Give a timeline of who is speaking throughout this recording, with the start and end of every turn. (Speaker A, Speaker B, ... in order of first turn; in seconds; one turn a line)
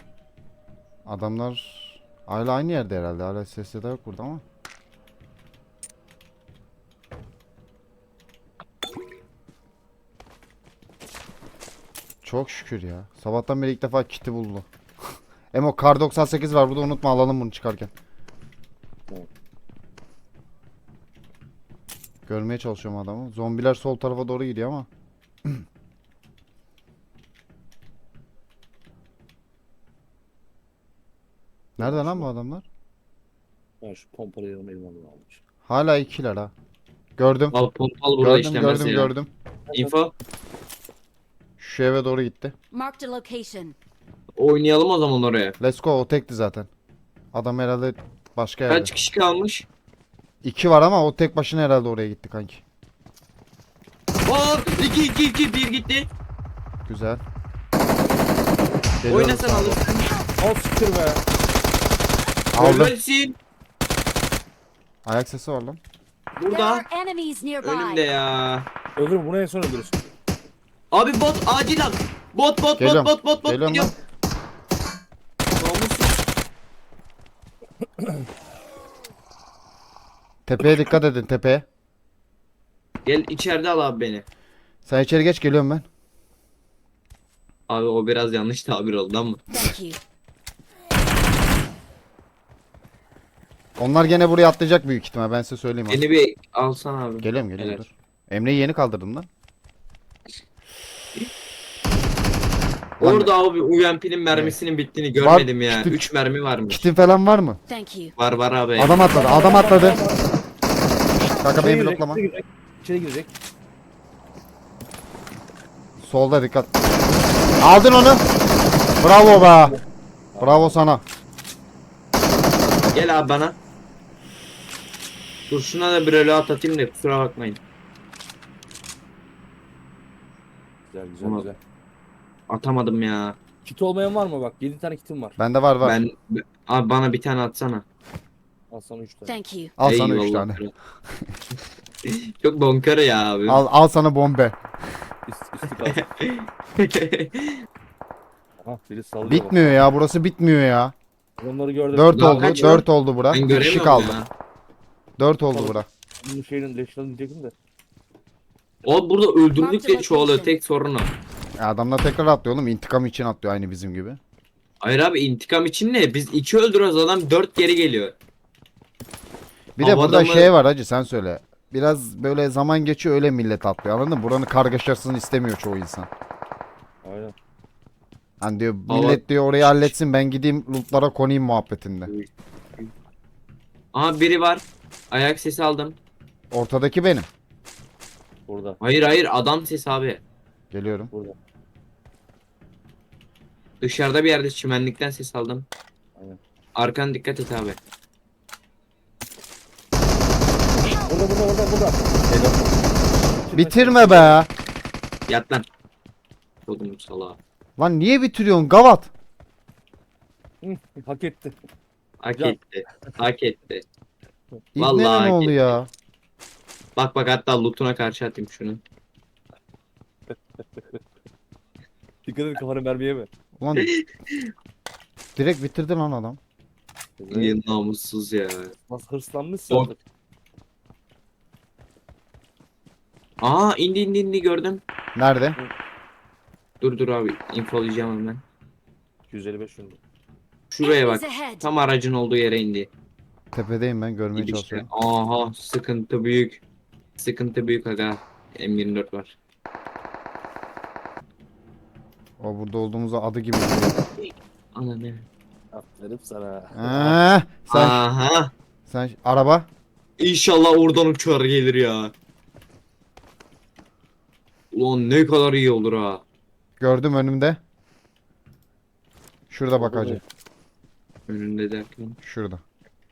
Speaker A: 1.1-4.4
Speaker A: 12.2-14.7
Speaker A: 15.5-17.9
Speaker A: 22.3-24.9
Speaker A: 31.8-32.6
Speaker B: 31.8-32.3
Speaker B: 33.8-35.4
Speaker A: 35.6-36.5
Speaker A: 37.2-37.6
Speaker C: 37.5-39.1
Speaker A: 38.2-39.3
Speaker C: 39.7-40.1
Speaker A: 41.6-42.5
Speaker D: 42.7-43.8
Speaker C: 44.4-45.5
Speaker A: 45.6-46.7
Speaker A: 47.3-48.9
Speaker C: 48.7-49.7
Speaker A: 50.4-52.6
Speaker C: 54.2-56.1
Speaker A: 56.9-57.2
Speaker A: 59.0-59.8
Speaker C: 59.1-60.1
Speaker B: 60.4-61.2
Speaker A: 62.5-63.0
Speaker C: 62.6-63.4
Speaker A: 65.0-65.8
Speaker C: 66.4-66.8
Speaker D: 66.5-68.0
Speaker C: 67.6-68.7
Speaker B: 69.0-70.1
Speaker C: 70.9-73.9
Speaker A: 72.8-73.9
Speaker C: 75.5-76.2
Speaker A: 80.5-81.7
Speaker C: 83.0-84.2
Speaker A: 84.8-85.8
Speaker C: 87.7-89.4
Speaker D: 89.5-90.0
Speaker A: 93.8-96.0
Speaker C: 95.9-97.9
Speaker A: 97.2-99.3
Speaker A: 103.0-103.3
Speaker C: 103.0-106.8
Speaker A: 104.3-104.6
Speaker A: 105.1-106.1
Speaker A: 106.7-107.6
Speaker D: 107.7-108.1
Speaker C: 108.2-109.0
Speaker A: 108.8-110.0
Speaker B: 109.1-110.4
Speaker A: 111.4-112.2
Speaker B: 111.4-113.3
Speaker A: 116.0-116.7
Speaker A: 117.6-118.2
Speaker A: 119.0-119.8
Speaker B: 120.3-120.8
Speaker A: 120.4-121.0
Speaker C: 122.9-123.6
Speaker C: 125.5-127.6
Speaker B: 130.9-131.6
Speaker C: 131.2-131.5
Speaker C: 132.5-133.4
Speaker B: 133.6-135.4
Speaker A: 135.4-136.0
Speaker C: 135.8-137.8
Speaker B: 138.7-139.4
Speaker D: 139.2-139.7
Speaker A: 139.8-140.6
Speaker C: 139.8-140.7
Speaker C: 142.0-143.6
Speaker A: 143.5-144.6
Speaker B: 145.3-146.0
Speaker C: 145.8-147.6
Speaker B: 148.6-149.9
Speaker A: 149.2-150.9
Speaker B: 151.4-152.8
Speaker A: 151.9-154.2
Speaker C: 152.1-154.3
Speaker A: 155.2-155.9
Speaker B: 155.5-157.5
Speaker C: 158.8-161.1
Speaker D: 159.6-160.5
Speaker A: 161.6-164.2
Speaker C: 164.8-168.2
Speaker C: 169.8-170.5
Speaker A: 169.8-176.1
Speaker B: 177.0-177.3
Speaker A: 178.4-182.1
Speaker C: 178.9-179.9
Speaker C: 182.1-182.9
Speaker C: 183.9-185.9
Speaker A: 186.5-187.3
Speaker B: 188.5-188.8
Speaker C: 188.8-190.2
Speaker A: 190.7-191.1
Speaker C: 193.8-195.7
Speaker C: 196.8-197.8
Speaker B: 201.0-202.0
Speaker C: 202.3-202.6
Speaker B: 203.4-204.4
Speaker A: 203.5-204.5
Speaker C: 205.3-205.7
Speaker C: 206.7-207.4
Speaker A: 207.8-209.1
Speaker B: 210.6-211.5
Speaker C: 212.2-213.8
Speaker A: 214.8-215.9
Speaker C: 214.8-215.8
Speaker C: 216.9-218.8
Speaker B: 220.3-221.0
Speaker B: 222.2-223.3
Speaker A: 223.6-223.9
Speaker C: 223.8-224.5
Speaker A: 225.3-226.4
Speaker B: 227.2-227.6
Speaker C: 227.3-228.7
Speaker B: 228.9-230.0
Speaker C: 233.4-234.8
Speaker A: 235.2-235.6
Speaker C: 236.8-238.4
Speaker B: 239.3-240.0
Speaker C: 240.7-242.9
Speaker D: 240.8-241.7
Speaker A: 243.5-244.9
Speaker C: 244.3-246.6
Speaker C: 247.2-249.3
Speaker A: 252.4-254.0
Speaker C: 254.2-255.2
Speaker B: 255.7-257.2
Speaker A: 256.7-258.0
Speaker C: 257.7-258.5
Speaker A: 258.9-259.7
Speaker C: 260.2-262.1
Speaker C: 264.7-266.2
Speaker A: 266.8-267.6
Speaker A: 269.5-270.2
Speaker B: 269.7-270.2
Speaker C: 271.3-272.2
Speaker A: 272.2-272.6